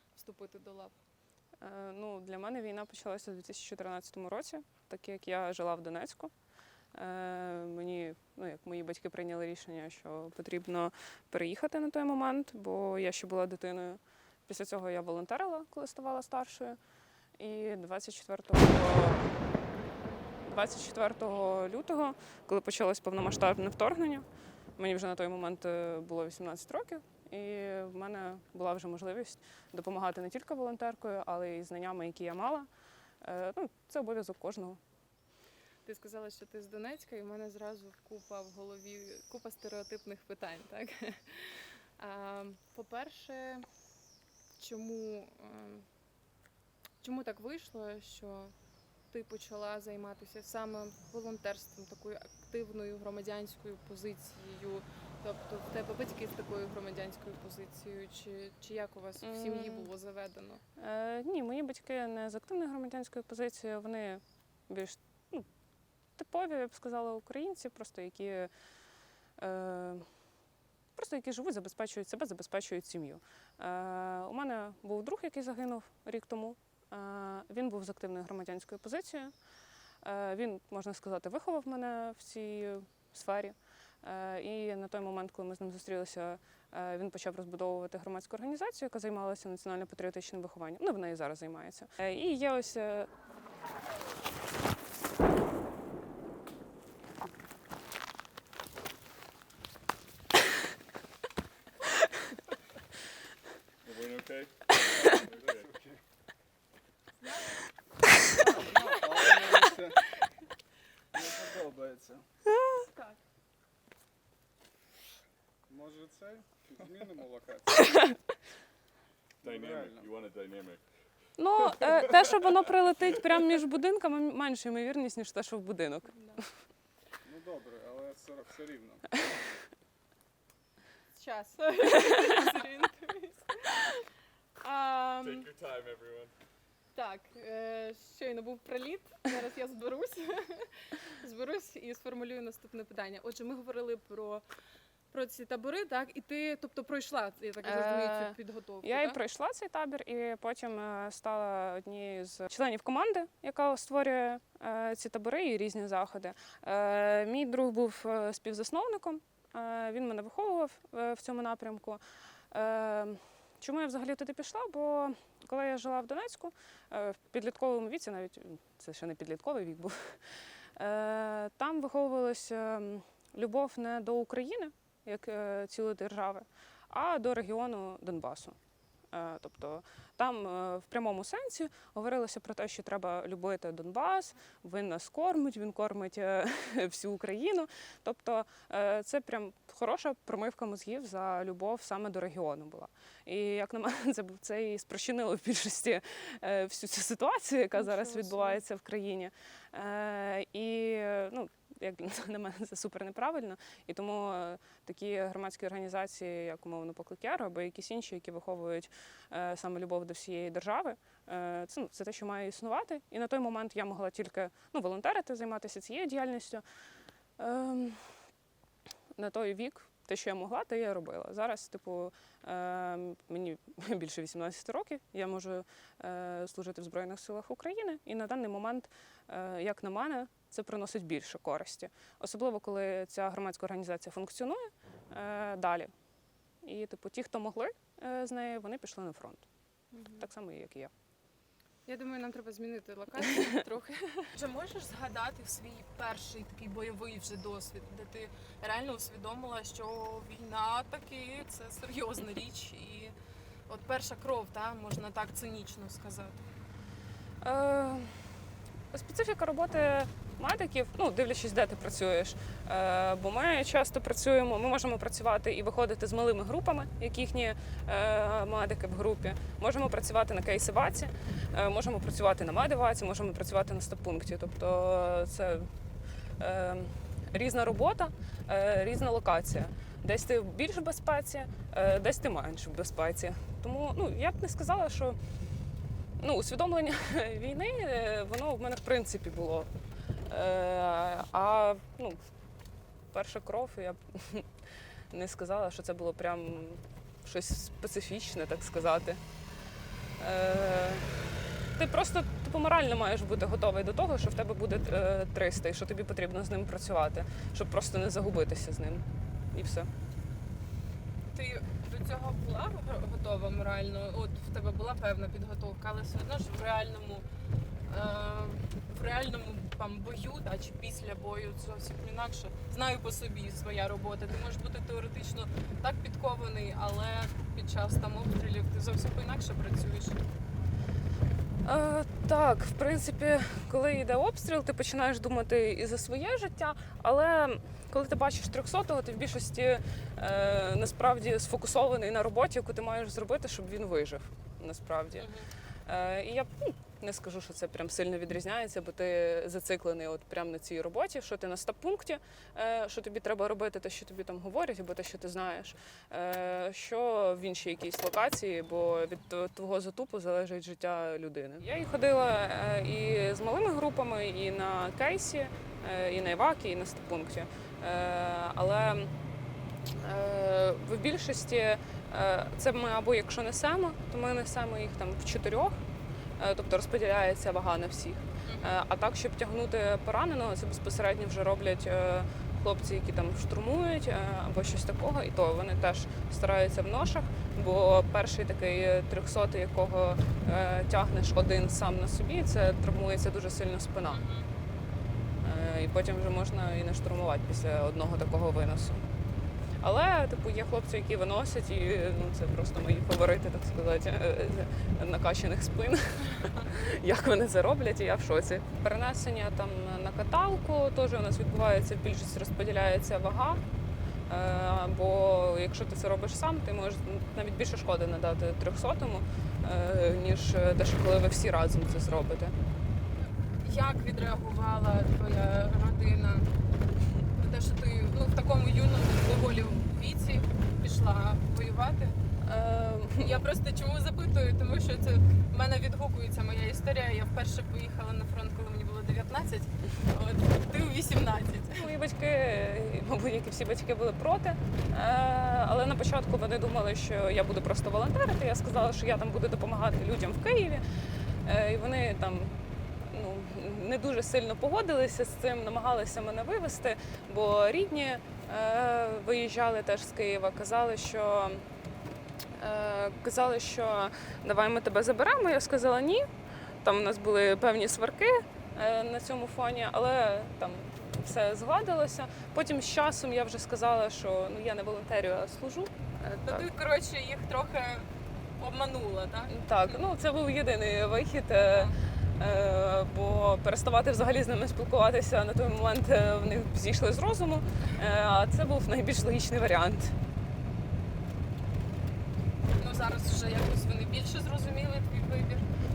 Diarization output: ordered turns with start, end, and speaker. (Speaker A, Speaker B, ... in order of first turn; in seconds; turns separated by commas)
Speaker A: 0.1-0.9, Speaker B: 1.6-6.3, Speaker B: 6.9-16.8, Speaker B: 17.4-19.3, Speaker B: 20.4-24.2, Speaker B: 24.8-32.7, Speaker B: 33.2-34.8, Speaker A: 35.8-43.6, Speaker A: 44.6-45.9, Speaker A: 47.0-48.5, Speaker A: 49.1-60.6, Speaker B: 59.2-59.9, Speaker B: 60.8-65.5, Speaker B: 66.2-68.5, Speaker B: 69.4-70.1, Speaker B: 71.0-79.3, Speaker B: 80.0-93.1, Speaker C: 103.8-104.7, Speaker D: 105.2-106.0, Speaker C: 105.2-105.7, Speaker D: 108.2-110.0, Speaker D: 111.1-112.3, Speaker A: 112.8-113.2, Speaker D: 115.7-117.9, Speaker C: 119.4-120.8, Speaker D: 119.4-120.1, Speaker B: 121.4-126.5, Speaker D: 127.2-129.2, Speaker A: 131.1-134.0, Speaker A: 134.6-135.5, Speaker C: 135.2-136.3, Speaker A: 136.9-144.4, Speaker A: 145.1-149.1, Speaker B: 147.6-162.0, Speaker B: 162.5-178.6, Speaker B: 179.1-216.6, Speaker A: 197.8-198.6, Speaker B: 217.4-218.2, Speaker B: 219.2-235.9, Speaker B: 236.6-239.4, Speaker A: 239.9-240.2, Speaker B: 240.2-240.9, Speaker A: 241.8-244.3, Speaker E: 244.3-253.1, Speaker E: 253.7-256.4, Speaker B: 257.4-258.3, Speaker B: 258.9-275.7, Speaker B: 276.4-285.2, Speaker B: 286.2-289.7, Speaker B: 290.3-292.2, Speaker B: 293.1-294.5, Speaker B: 295.1-299.2, Speaker B: 300.2-301.1, Speaker B: 301.7-309.9, Speaker E: 311.3-317.2, Speaker E: 317.9-330.2, Speaker B: 331.6-345.3, Speaker E: 345.1-345.5, Speaker B: 345.9-369.1, Speaker B: 369.9-375.8, Speaker B: 376.4-394.2, Speaker E: 378.4-378.8, Speaker E: 394.1-394.5, Speaker B: 395.4-399.0, Speaker B: 399.8-413.6, Speaker B: 414.3-422.5, Speaker E: 423.6-426.5, Speaker E: 427.3-432.2, Speaker B: 432.4-433.4, Speaker E: 433.2-441.9, Speaker B: 441.7-450.8, Speaker B: 451.4-461.6, Speaker B: 462.5-466.2, Speaker B: 466.8-476.7, Speaker E: 476.4-480.0, Speaker B: 479.5-490.2, Speaker E: 481.5-481.9, Speaker E: 492.8-495.6